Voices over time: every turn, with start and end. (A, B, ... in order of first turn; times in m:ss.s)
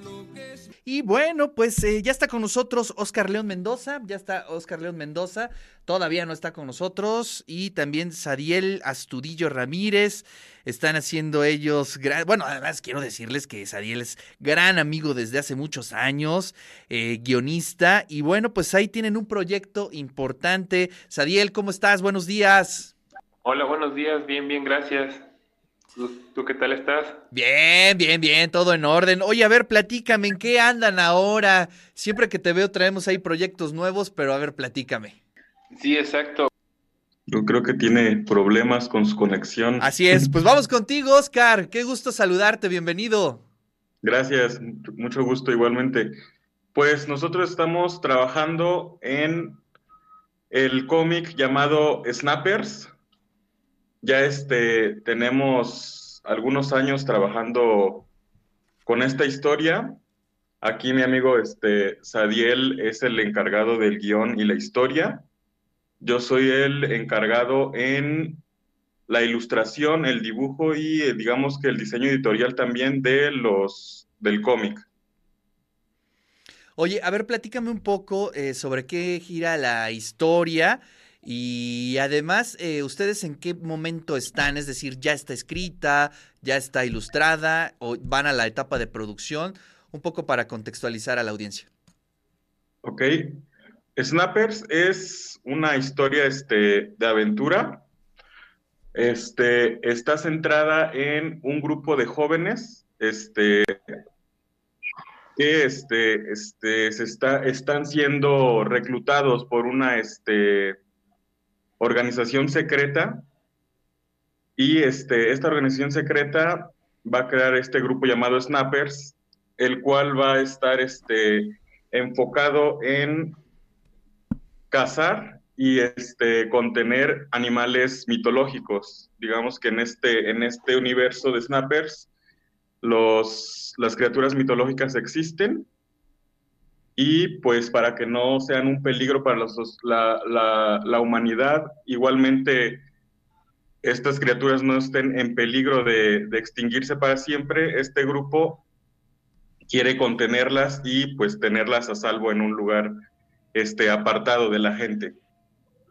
0:00.8-0:22.9 A
0:23.4-0:25.3 B
0:25.9-0:27.2 B
0:27.3-0:35.2 A
0:35.7-0:36.5 B
0:37.3-0:40.2 C
0:39.8-0:43.4 A
0:44.0-0:46.1 C
0:46.7-0:49.6 C
0:50.5-0:52.9 C
0:54.0-0:58.1 C
0:58.8-1:00.0 C
1:00.6-1:05.3 C
1:06.0-1:08.4 C
1:09.1-1:14.9 C
1:16.8-1:31.7 A
1:32.8-1:33.4 C
1:34.0-1:37.9 C
1:39.0-1:44.0 C
1:45.4-1:50.8 C
1:51.8-1:53.3 C
1:54.6-2:03.4 C
2:04.7-2:12.1 C
2:12.8-2:15.7 C
2:17.0-2:22.8 C
2:23.8-2:28.6 C
2:29.7-2:32.9 C
2:33.6-2:35.2 C